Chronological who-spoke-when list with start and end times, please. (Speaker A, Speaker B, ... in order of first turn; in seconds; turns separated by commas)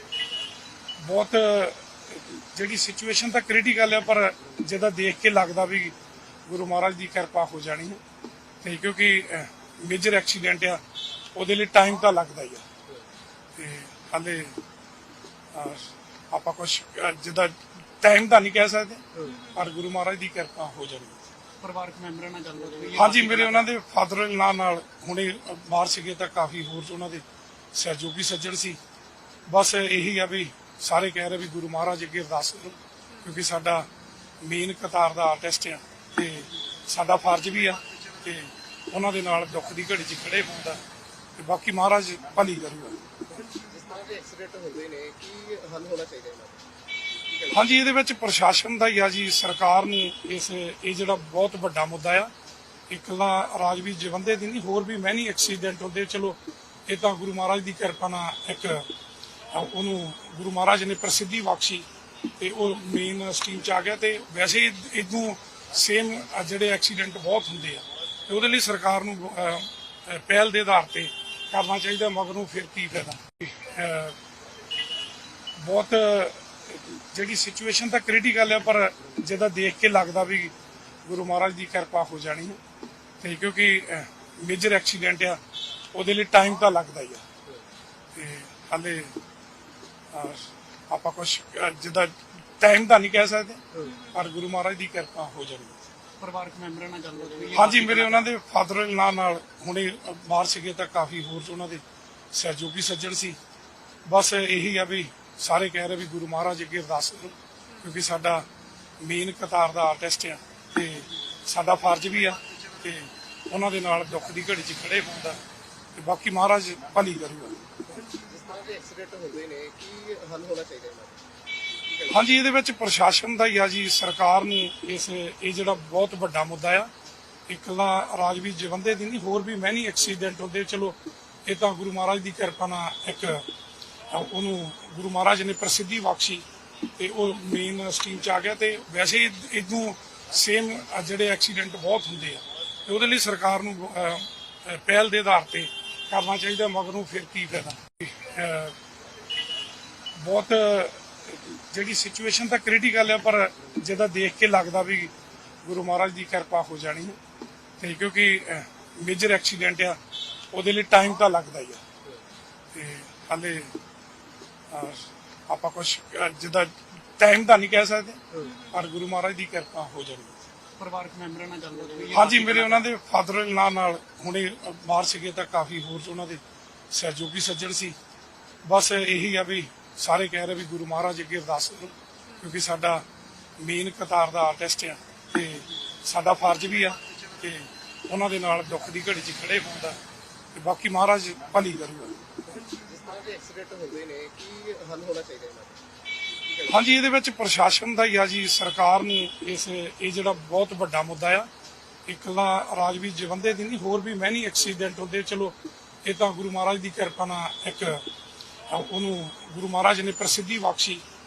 Speaker A: 1.0-6.0, Speaker A: 6.5-8.0, Speaker A: 8.6-10.8, Speaker A: 11.3-12.7, Speaker A: 13.6-14.6, Speaker A: 15.5-21.3, Speaker B: 21.6-23.7, Speaker A: 22.9-28.8, Speaker A: 29.5-33.9, Speaker A: 34.4-40.9, Speaker A: 41.4-43.2, Speaker C: 43.6-46.6, Speaker C: 47.3-47.5, Speaker A: 47.5-52.3, Speaker A: 52.9-58.9, Speaker A: 59.5-61.9, Speaker A: 62.4-74.2, Speaker A: 75.6-82.6, Speaker A: 83.2-85.4, Speaker A: 85.9-87.2, Speaker A: 88.1-89.2, Speaker A: 90.1-95.9, Speaker B: 96.2-98.3, Speaker A: 97.5-103.4, Speaker A: 104.1-108.5, Speaker A: 109.0-115.4, Speaker A: 116.0-117.8, Speaker C: 118.1-121.2, Speaker C: 121.9-122.2, Speaker A: 122.1-126.9, Speaker A: 127.5-133.5, Speaker A: 134.1-136.4, Speaker A: 137.0-148.8, Speaker A: 150.2-157.2, Speaker A: 157.8-160.0, Speaker A: 160.5-161.8, Speaker A: 162.7-163.7, Speaker A: 164.7-170.5, Speaker B: 170.8-172.9, Speaker A: 172.1-178.0, Speaker A: 178.7-183.1, Speaker A: 183.6-190.0, Speaker A: 190.5-192.4, Speaker C: 192.7-195.8, Speaker C: 196.4-196.8, Speaker A: 196.7-201.5, Speaker A: 202.1-208.1, Speaker A: 208.7-211.0